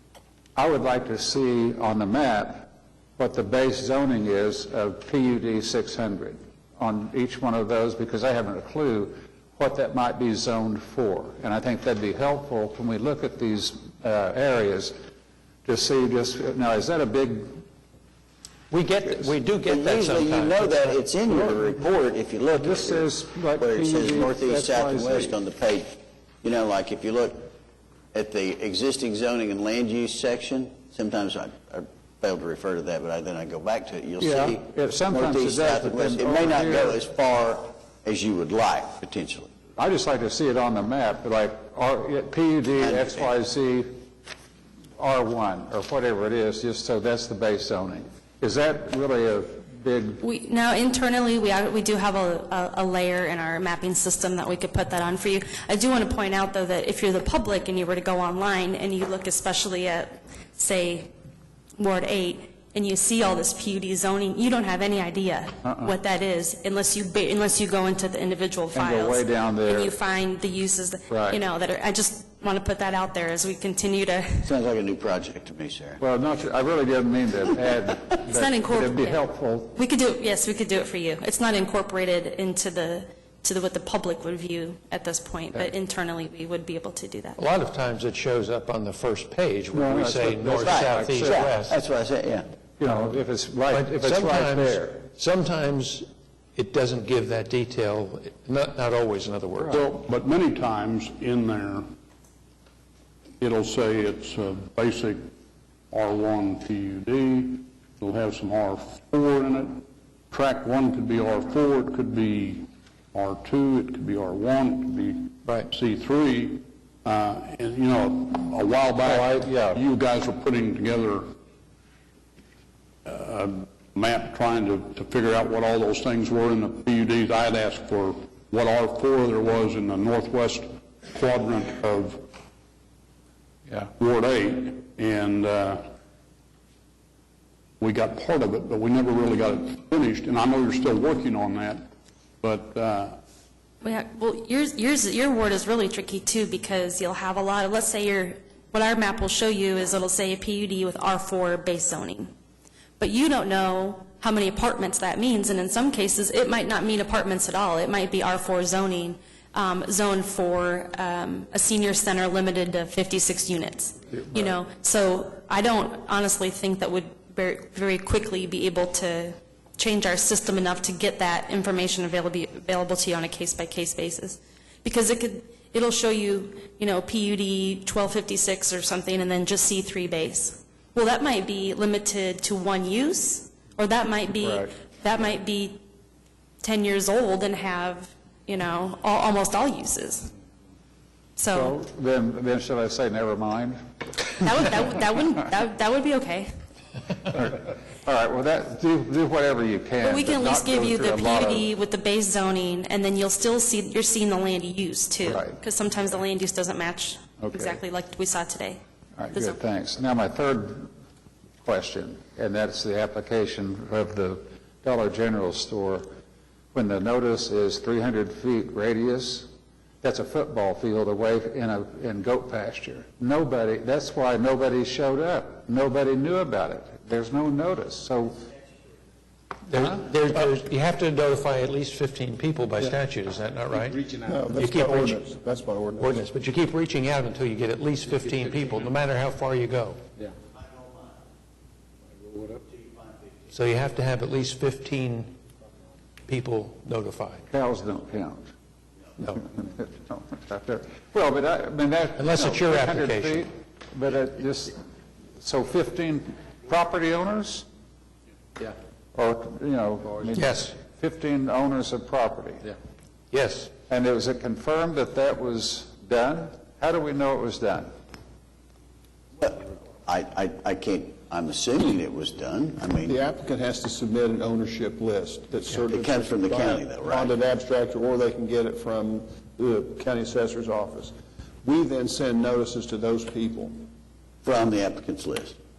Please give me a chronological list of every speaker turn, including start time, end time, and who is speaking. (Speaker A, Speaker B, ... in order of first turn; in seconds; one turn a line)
Speaker A: 0.6-14.9
Speaker A: 15.7-17.6
Speaker B: 18.7-20.9
Speaker C: 19.6-27.5
Speaker A: 21.3-21.7
Speaker A: 22.6-25.3
Speaker C: 28.1-39.5
Speaker A: 34.2-37.0
Speaker A: 39.8-43.9
Speaker C: 42.8-43.2
Speaker A: 45.0-50.2
Speaker D: 50.2-61.1
Speaker D: 61.8-74.5
Speaker A: 65.6-65.9
Speaker A: 68.7-70.0
Speaker A: 71.1-71.4
Speaker C: 74.4-76.0
Speaker A: 76.0-79.8
Speaker D: 78.3-87.4
Speaker B: 87.4-91.8
Speaker A: 89.7-91.4
Speaker C: 90.6-92.5
Speaker A: 92.8-95.0
Speaker B: 93.7-99.8
Speaker E: 99.7-101.9
Speaker E: 103.4-105.3
Speaker E: 105.9-121.3
Speaker A: 119.0-119.8
Speaker E: 123.0-132.3
Speaker E: 133.9-135.9
Speaker E: 137.8-141.9
Speaker E: 142.4-143.2
Speaker D: 143.8-152.3
Speaker D: 153.0-185.8
Speaker D: 186.6-190.3
Speaker D: 191.4-191.7
Speaker A: 191.5-193.8
Speaker D: 194.4-196.5
Speaker A: 197.3-201.7
Speaker D: 200.0-208.8
Speaker A: 205.2-205.6
Speaker A: 207.4-207.8
Speaker A: 209.2-210.9
Speaker A: 211.6-216.1
Speaker A: 216.7-219.5
Speaker A: 220.0-228.4
Speaker B: 229.7-235.2
Speaker F: 234.2-236.2
Speaker B: 236.0-240.0
Speaker B: 243.5-245.3
Speaker B: 246.3-247.4
Speaker A: 247.5-248.5
Speaker A: 249.4-254.8
Speaker B: 252.2-253.5
Speaker A: 255.4-257.6
Speaker A: 259.1-262.7
Speaker B: 260.3-260.7
Speaker B: 263.3-263.7
Speaker A: 263.9-267.9
Speaker C: 269.4-273.2
Speaker F: 273.1-283.8
Speaker C: 275.9-277.3
Speaker C: 284.4-285.6